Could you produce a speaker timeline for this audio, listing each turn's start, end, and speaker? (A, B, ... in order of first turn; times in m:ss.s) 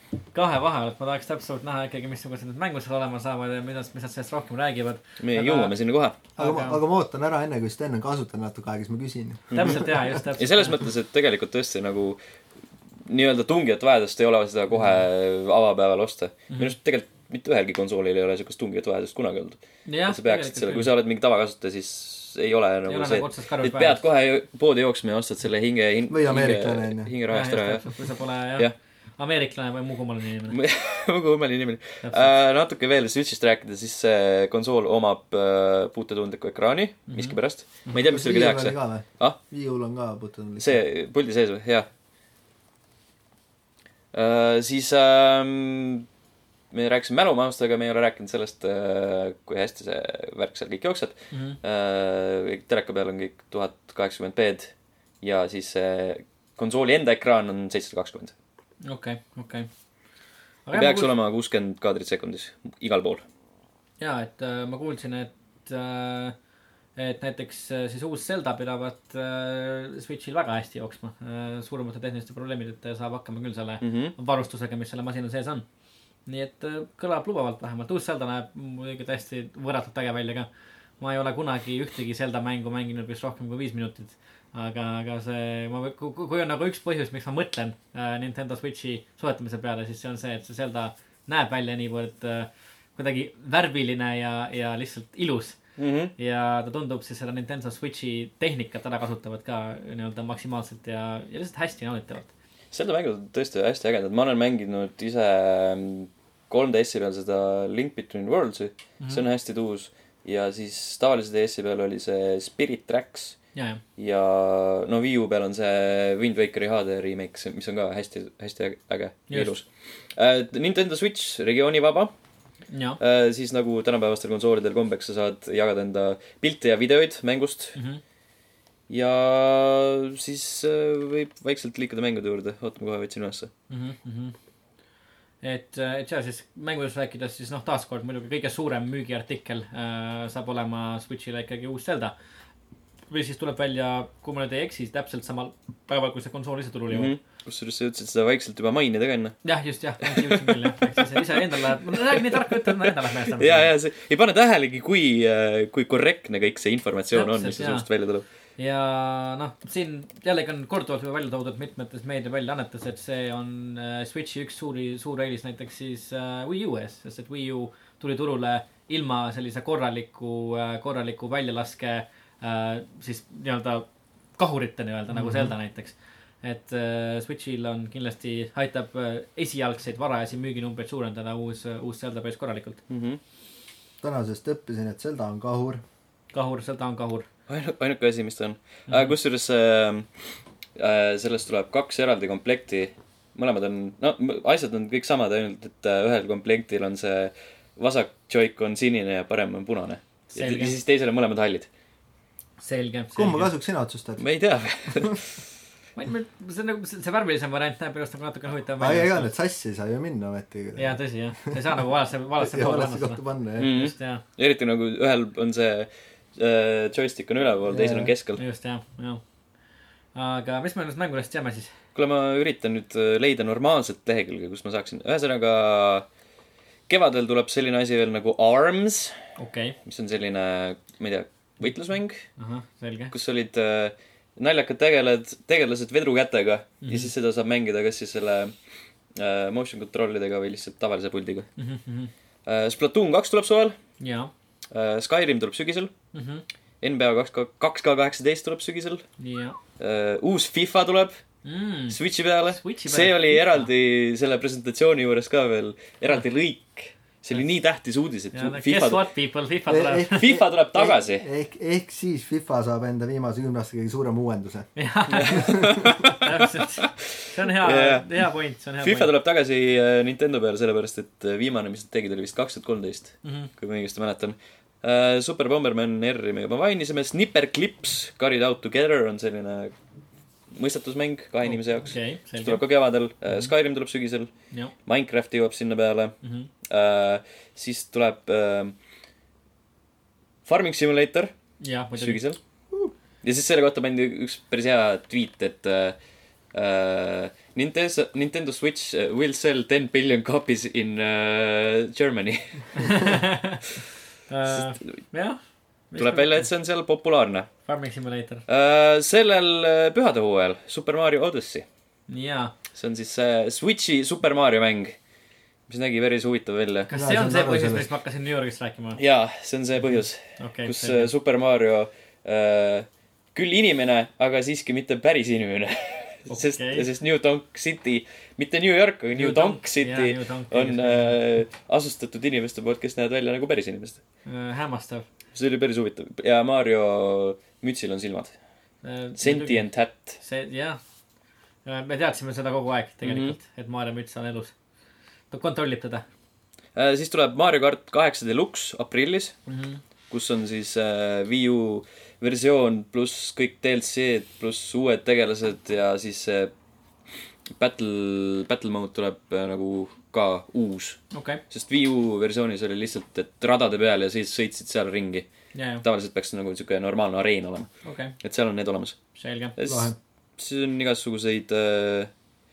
0:00.3-0:05.7 A
0:05.2-0:06.2 B
0:06.4-0:06.8 A
0:06.4-0:09.9 C
0:09.5-0:09.8 B
0:09.5-0:10.8 A
0:10.4-0:12.2 B
0:13.0-0:27.9 B
0:19.9-0:20.9 A
0:22.9-0:24.0 A
0:26.1-0:27.1 C
0:27.3-0:30.6 A
0:30.5-0:39.4 B
0:32.0-0:32.3 A
0:37.1-0:37.4 A
0:38.0-0:40.8 C
0:40.6-0:41.9 B
0:44.1-0:46.0 B
0:46.7-0:58.3 B
0:51.3-0:51.6 A
0:58.8-0:59.7 A
1:00.6-1:01.1 A
1:00.7-1:03.2 B
1:04.0-1:06.3 A
1:07.0-1:15.6 A
1:13.8-1:14.1 B
1:16.3-1:20.5 A
1:21.0-1:35.6 A
1:35.8-1:36.1 B
1:36.2-1:42.3 A
1:42.7-1:53.4 B
1:53.6-1:53.8 A
1:54.0-2:02.1 B
2:02.7-2:03.0 A
2:03.0-2:07.8 B
2:07.8-2:08.0 A
2:08.9-2:13.5 B
2:13.7-2:14.4 A
2:15.4-2:22.1 A
2:23.1-2:27.1 A
2:26.9-2:29.4 B
2:29.4-2:33.7 A
2:30.0-2:38.2 B
2:37.1-2:37.9 A
2:38.6-2:53.9 A
2:54.4-3:02.8 A
2:55.2-2:55.5 C
3:02.9-3:03.2 B
3:04.0-3:05.8 C
3:06.3-3:07.3 A
3:07.5-3:10.1 B
3:10.8-3:21.7 B
3:20.3-3:20.7 A
3:22.6-3:23.5 A
3:23.1-3:24.2 C
3:24.2-3:25.4 B
3:26.0-3:29.3 A
3:28.8-3:31.6 C
3:30.8-3:34.2 A
3:32.4-3:33.7 C
3:33.6-3:38.4 B
3:37.7-3:38.1 C
3:38.4-3:39.2 A
3:40.1-3:41.7 A
3:41.9-3:46.0 B
3:46.9-3:49.2 B
3:49.4-3:49.8 A
3:49.8-3:52.3 B
3:52.4-3:53.1 A
3:53.1-3:58.5 B
3:56.8-3:57.1 A
3:59.1-4:01.5 B
4:01.6-4:02.1 A
4:02.4-4:03.8 B
4:04.0-4:04.3 A
4:04.7-4:05.9 B
4:06.1-4:06.4 A
4:06.8-4:09.0 B
4:09.2-4:09.6 A
4:09.8-4:11.2 B
4:11.4-4:12.0 A
4:11.9-4:19.0 B
4:12.5-4:13.7 A
4:18.3-4:20.3 A
4:19.7-4:24.7 C
4:20.1-4:21.3 B
4:24.8-4:29.1 A
4:25.1-4:28.1 B
4:25.3-4:25.8 C
4:28.8-4:39.7 B
4:33.2-4:33.5 A
4:40.5-4:44.3 B
4:41.5-4:42.6 A
4:44.8-4:48.8 B
4:46.2-4:46.5 A
4:50.4-4:51.3 B
4:51.6-4:52.2 A
4:51.9-4:52.4 B
4:53.2-4:56.0 B
4:56.5-5:03.2 B
5:02.7-5:03.6 A
5:04.3-5:05.4 A
5:05.9-5:06.5 A
5:06.0-5:07.5 B
5:07.6-5:08.4 A
5:08.5-5:11.6 B
5:12.1-5:12.5 A
5:12.7-5:15.0 B
5:15.7-5:16.9 B
5:16.9-5:19.0 A
5:16.9-5:17.9 C
5:19.0-5:34.0 B
5:20.4-5:21.1 A
5:26.3-5:26.9 A
5:29.2-5:31.2 A
5:34.3-5:35.0 A
5:35.3-5:38.3 B
5:38.8-5:39.7 A
5:39.2-5:40.2 B
5:40.2-5:40.8 A
5:41.6-5:44.5 A
5:43.0-5:43.4 B
5:45.3-5:46.0 A
5:46.7-5:49.4 B
5:49.5-5:49.8 A
5:50.1-5:56.5 B
5:57.6-6:05.3 B
6:01.1-6:01.4 A
6:05.5-6:05.8 A
6:05.8-6:07.7 B
6:07.8-6:08.1 A
6:08.2-6:09.0 B
6:09.2-6:09.6 A
6:09.6-6:12.1 B
6:09.6-6:10.0 C